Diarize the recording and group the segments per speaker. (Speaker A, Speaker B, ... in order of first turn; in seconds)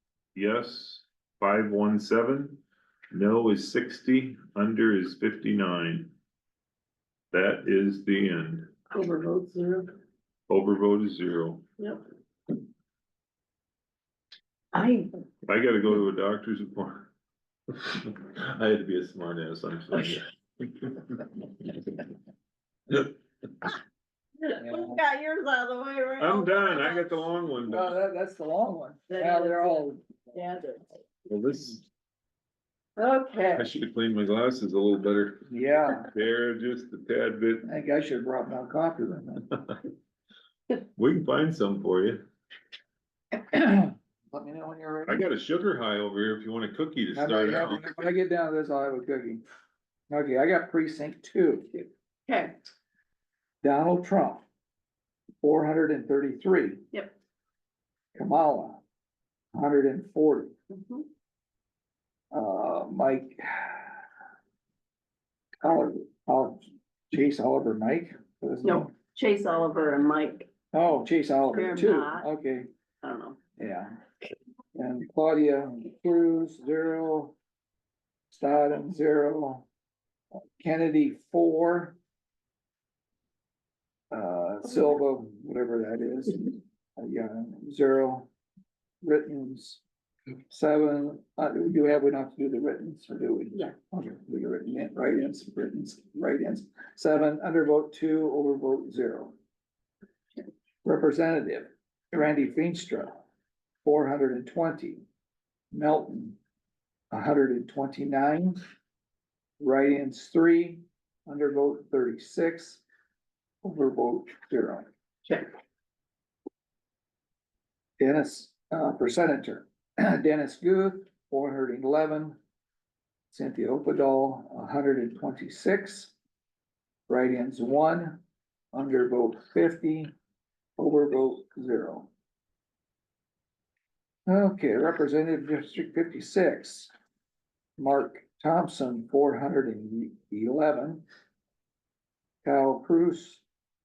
Speaker A: 0.3-6.1, 7.3-8.7, 10.5-11.6, 15.5-17.1, 17.8-21.8, 26.2-27.9, 31.3-31.8, 33.5-37.7, 41.0-42.2, 45.1-48.0
Speaker B: 8.9-9.9, 14.7-15.1, 24.4-27.3, 29.1-30.9, 33.0-33.8, 51.7-52.6, 60.7-61.1, 68.6-70.5, 71.5-72.3, 73.0-73.4
Speaker C: 24.6-25.0, 27.7-30.4, 35.5-36.1, 37.6-39.5, 43.4-45.3, 47.1-49.4, 50.1-51.7, 53.6-54.4, 55.4-56.9, 58.1-58.8, 59.5-60.5, 62.3-64.0, 65.6-68.9, 70.7-72.7, 73.6-74.0, 74.8-77.4, 78.3-79.7, 80.4-82.0, 84.1-88.3, 89.0-89.8, 90.5-99.3, 100.8-103.2, 103.8-105.0, 105.7-106.4, 107.1-108.6, 109.6-112.8, 113.6-114.9, 118.0-122.4, 123.3-126.1, 127.1-128.2, 128.7-130.1, 130.8-132.1, 134.3-136.9, 137.8-141.0, 142.4-143.4